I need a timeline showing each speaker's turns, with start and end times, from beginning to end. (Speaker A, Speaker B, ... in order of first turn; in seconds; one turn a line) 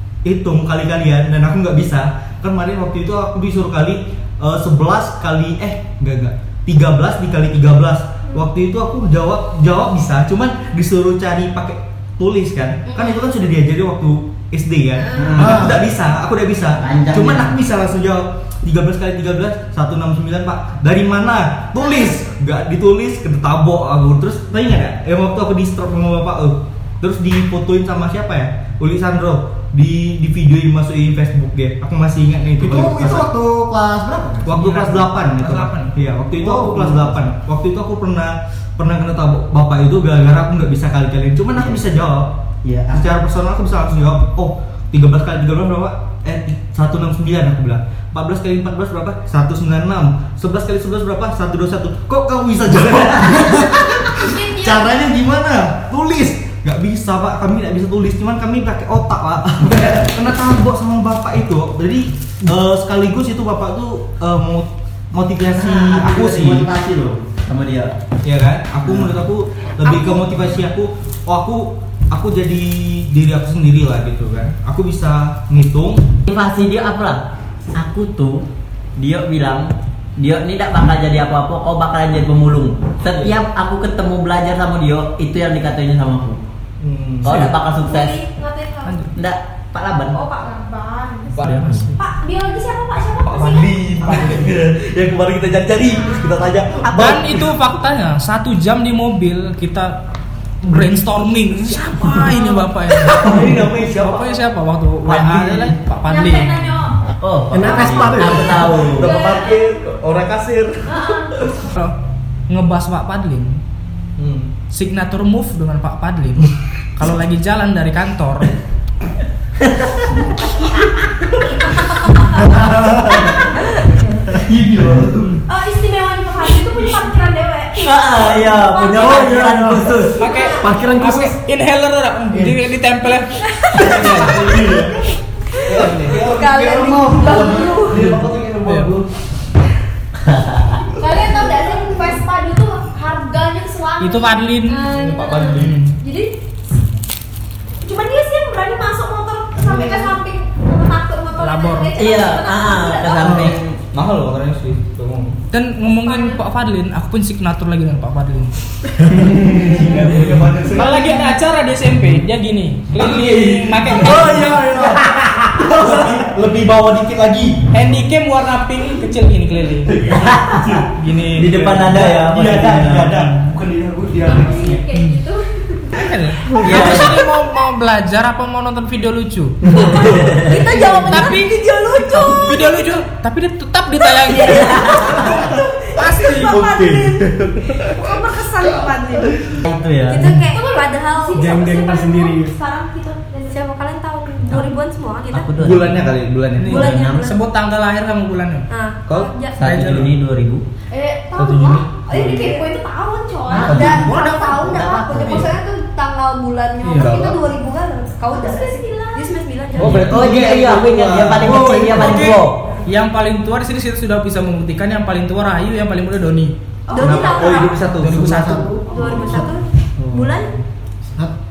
Speaker A: 0.2-33.3
Speaker B: 12.9-13.3
Speaker C: 15.1-15.8
Speaker C: 16.8-17.6
Speaker D: 32.6-34.8
Speaker A: 34.5-42.4
Speaker E: 34.5-35.9
Speaker D: 36.4-37.1
Speaker C: 41.6-41.8
Speaker C: 42.6-43.0
Speaker A: 42.9-66.7
Speaker F: 53.6-55.1
Speaker C: 65.5-67.9
Speaker A: 68.2-76.1
Speaker B: 69.8-70.3
Speaker C: 76.3-77.2
Speaker C: 77.8-78.5
Speaker C: 79.0-86.4
Speaker A: 83.1-83.4
Speaker A: 86.8-87.5
Speaker C: 87.2-88.2
Speaker E: 87.3-87.5
Speaker F: 87.8-89.0
Speaker E: 88.8-89.2
Speaker C: 89.2-90.2
Speaker F: 90.1-94.2
Speaker A: 91.3-91.9
Speaker E: 91.4-92.0
Speaker C: 91.4-91.9
Speaker A: 93.2-97.5
Speaker F: 95.9-96.3
Speaker E: 96.8-100.0
Speaker E: 100.6-106.8
Speaker A: 103.0-104.4
Speaker A: 105.0-105.6
Speaker F: 106.0-107.0
Speaker C: 107.2-109.1
Speaker D: 107.5-108.9
Speaker A: 107.6-111.7
Speaker F: 108.9-109.8
Speaker F: 110.9-111.7
Speaker E: 112.5-113.6
Speaker A: 114.2-114.5
Speaker E: 114.7-118.5
Speaker C: 119.6-120.5
Speaker F: 121.3-122.6
Speaker D: 122.5-123.3
Speaker A: 122.6-123.1
Speaker F: 123.2-124.2
Speaker A: 124.3-125.3
Speaker C: 124.5-125.2
Speaker F: 125.5-129.3
Speaker C: 127.8-130.2
Speaker D: 128.9-131.4
Speaker E: 130.2-134.5
Speaker F: 130.3-130.6
Speaker A: 133.7-134.9
Speaker A: 135.6-139.1
Speaker E: 135.8-136.1
Speaker B: 136.1-138.1
Speaker F: 137.2-138.0
Speaker E: 138.0-138.9
Speaker C: 140.2-140.8
Speaker F: 141.0-146.3
Speaker E: 144.0-144.9
Speaker A: 144.9-145.9
Speaker E: 145.6-145.9
Speaker F: 147.8-153.6
Speaker E: 151.4-152.0
Speaker C: 152.0-153.8
Speaker A: 153.2-155.4
Speaker E: 155.5-158.6
Speaker F: 156.0-156.4
Speaker A: 159.0-161.4
Speaker E: 160.7-164.6
Speaker A: 163.0-167.8
Speaker E: 167.7-170.0
Speaker A: 169.9-174.8
Speaker C: 170.1-173.3
Speaker E: 171.0-171.7
Speaker F: 174.2-176.1
Speaker E: 175.9-180.2
Speaker C: 176.6-177.2
Speaker F: 179.7-183.0
Speaker B: 179.9-182.7
Speaker C: 180.1-180.6
Speaker E: 180.9-186.7
Speaker B: 184.2-185.6
Speaker F: 184.3-186.8
Speaker C: 184.5-185.3
Speaker B: 186.3-187.2
Speaker A: 186.3-188.0
Speaker F: 187.9-189.3
Speaker B: 188.0-189.5
Speaker C: 189.7-190.4
Speaker B: 190.1-191.6
Speaker F: 190.4-193.7
Speaker D: 191.3-192.5
Speaker B: 193.5-195.5
Speaker C: 195.3-197.4
Speaker A: 195.6-197.0
Speaker E: 196.6-198.7
Speaker B: 198.7-199.6
Speaker C: 199.6-200.7
Speaker E: 199.6-200.2
Speaker F: 200.9-204.5
Speaker A: 201.4-201.9
Speaker C: 202.1-202.5
Speaker B: 202.1-202.7
Speaker C: 203.5-205.5
Speaker B: 203.5-210.1
Speaker A: 203.6-204.1
Speaker E: 206.8-207.2
Speaker A: 207.0-207.4
Speaker F: 208.3-210.0
Speaker A: 209.8-212.1
Speaker C: 210.0-212.6
Speaker D: 211.4-212.2
Speaker E: 211.5-216.5
Speaker F: 216.9-217.8
Speaker B: 216.9-217.8
Speaker A: 217.0-218.5
Speaker D: 218.0-219.6
Speaker E: 218.0-218.8
Speaker B: 218.9-220.5
Speaker F: 219.0-219.5
Speaker A: 220.0-220.5